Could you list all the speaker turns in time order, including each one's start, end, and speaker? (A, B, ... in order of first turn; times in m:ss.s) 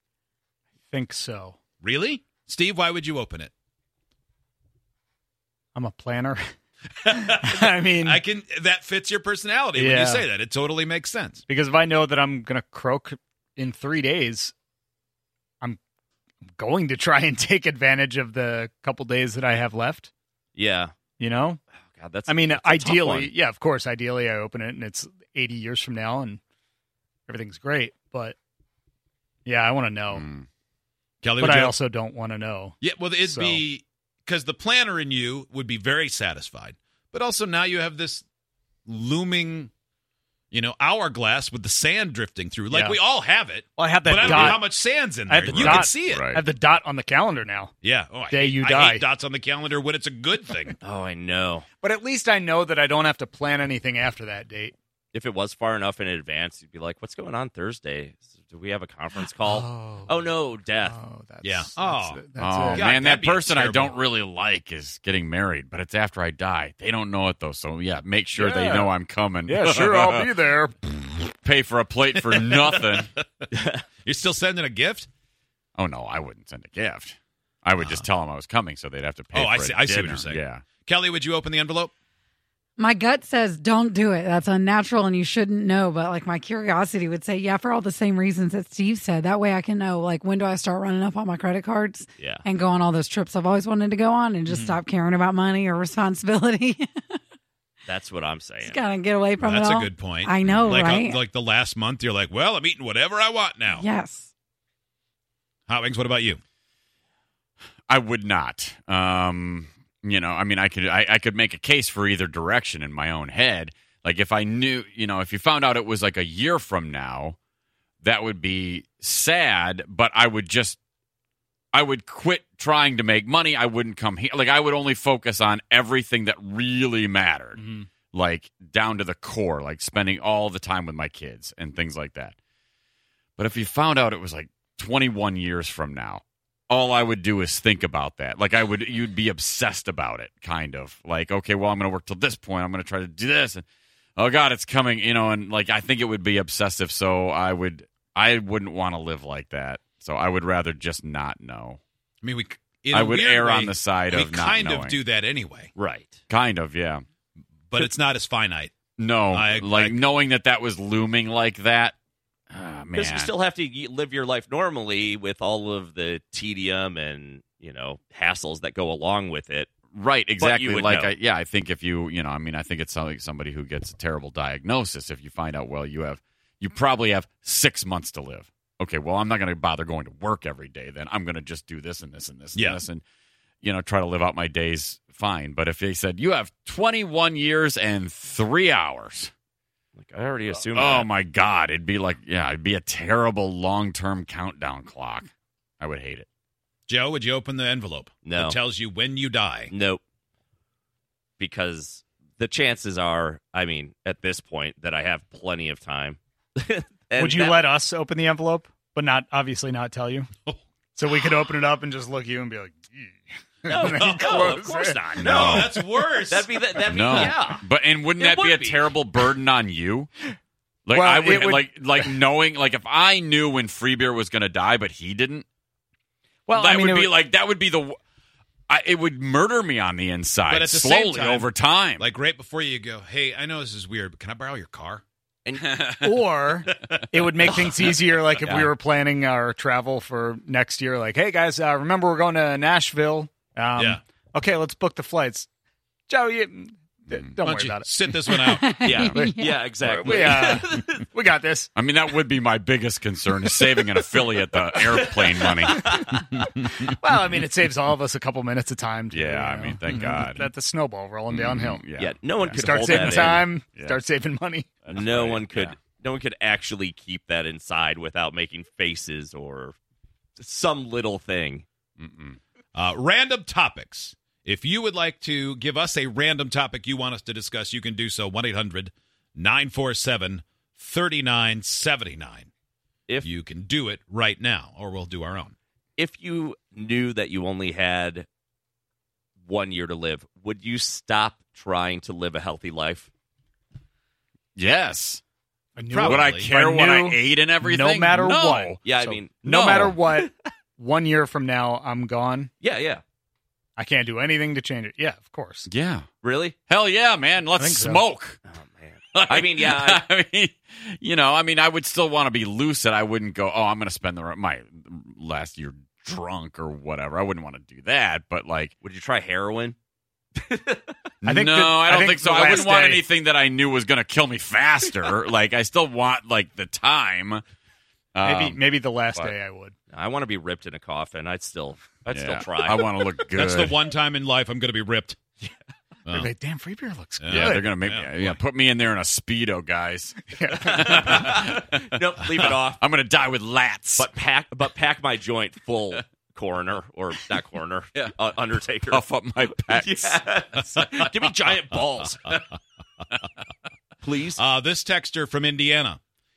0:00.9-0:01.6 A
0:01.8-0:03.5 B
0:05.8-0:06.4 A
0:07.0-0:11.4 B
0:07.1-0:08.2 A
0:09.8-0:10.3 A
0:11.5-0:14.5 A
0:16.6-0:20.1 A
0:20.6-0:20.9 C
0:21.2-0:21.6 A
0:21.8-0:23.3 C
0:22.3-0:26.4 A
0:27.3-0:28.4 A
0:29.5-0:30.2 A
0:30.1-0:30.5 D
0:31.2-0:31.8 B
0:31.4-0:33.6 A
0:32.8-0:38.2 B
0:38.9-0:39.7 B
0:40.5-0:46.3 B
0:42.7-0:43.0 A
0:43.8-0:47.7 A
0:44.2-0:44.5 D
0:45.5-0:46.4 D
0:47.8-0:50.8 B
0:48.3-0:49.1 A
0:50.8-0:51.7 C
0:51.8-0:54.7 A
0:55.1-1:01.0 C
0:59.4-1:02.9 A
1:01.4-1:03.9 B
1:02.4-1:10.4 D
1:08.4-1:08.9 A
1:09.5-1:10.8 A
1:10.9-1:13.1 D
1:12.2-1:13.1 B
1:13.5-1:13.8 C
1:14.0-1:15.1 B
1:15.8-1:20.6 D
1:19.3-1:21.9 B
1:22.8-1:37.2 E
1:32.2-1:32.4 C
1:37.9-1:38.8 C
1:38.6-1:41.2 E
1:39.4-1:43.8 B
1:40.4-1:40.8 D
1:43.7-1:44.3 E
1:45.7-1:46.4 B
1:47.9-1:57.4 D
1:58.0-2:00.8 D
2:01.7-2:12.4 D
2:13.4-2:23.6 D
2:24.2-2:31.8 D
2:32.2-2:35.7 B
2:32.9-2:35.0 D
2:35.8-2:36.2 C
2:36.3-2:37.0 D
2:37.7-2:38.7 B
2:39.0-2:42.0 D
2:39.3-2:40.0 B
2:42.5-2:43.3 D
2:43.0-2:49.7 C
2:49.9-3:03.0 D
2:50.4-2:51.2 C
3:03.6-3:09.3 D
3:10.0-3:11.1 C
3:10.7-3:16.3 D
3:16.9-3:19.7 B
3:18.2-3:18.6 C
3:19.7-3:20.0 C
3:21.4-3:27.7 C
3:27.2-3:30.3 A
3:31.0-3:35.5 A
3:33.7-3:37.6 C
3:33.8-3:34.3 B
3:35.2-3:35.7 D
3:35.2-3:36.5 B
3:36.8-3:40.1 D
3:38.2-3:39.0 C
3:40.9-3:45.5 D
3:40.9-3:42.1 A
3:46.5-3:47.2 A
3:46.5-3:48.0 D
3:48.7-3:52.0 D
3:50.5-3:51.5 B
3:52.0-3:55.0 B
3:55.5-3:55.9 C
3:56.0-4:05.5 A
4:03.8-4:04.0 B
4:06.1-4:08.6 A
4:07.4-4:08.8 B
4:08.3-4:09.8 E
4:08.8-4:11.0 C
4:09.1-4:11.7 A
4:11.8-4:15.9 D
4:14.7-4:16.0 C
4:16.9-4:21.8 A
4:19.1-4:20.5 D
4:21.3-4:24.0 D
4:22.0-4:23.5 C
4:22.5-4:24.7 A
4:24.8-4:25.8 D
4:24.9-4:29.8 C
4:30.4-4:31.6 C
4:32.0-4:32.4 D
4:32.8-4:42.5 B
4:43.2-4:45.6 B
4:46.0-4:48.3 C
4:49.4-4:53.1 C
4:54.6-4:55.2 D
4:55.8-5:02.5 A
4:55.9-4:56.5 B
4:56.1-4:58.8 D
4:58.8-5:00.3 C
4:59.5-5:00.0 D
5:02.6-5:03.0 C
5:03.8-5:05.7 A
5:05.7-5:06.1 D
5:06.2-5:06.6 C
5:06.7-5:08.4 D
5:07.6-5:08.0 A
5:08.5-5:10.1 C
5:09.2-5:18.7 D
5:18.8-5:19.8 C
5:20.5-5:20.9 C
5:21.2-5:27.4 D
5:21.2-5:23.0 A
5:28.2-5:28.6 D
5:28.2-5:29.7 A
5:29.9-5:33.1 C
5:32.1-5:33.8 D
5:33.4-5:35.2 B
5:36.1-5:37.8 A
5:37.2-5:38.4 B
5:37.3-5:44.1 D
5:40.3-5:40.9 A
5:40.6-5:42.8 C
5:44.0-5:52.4 C
5:48.9-5:50.2 D
5:54.0-5:54.4 C
5:54.4-5:56.0 B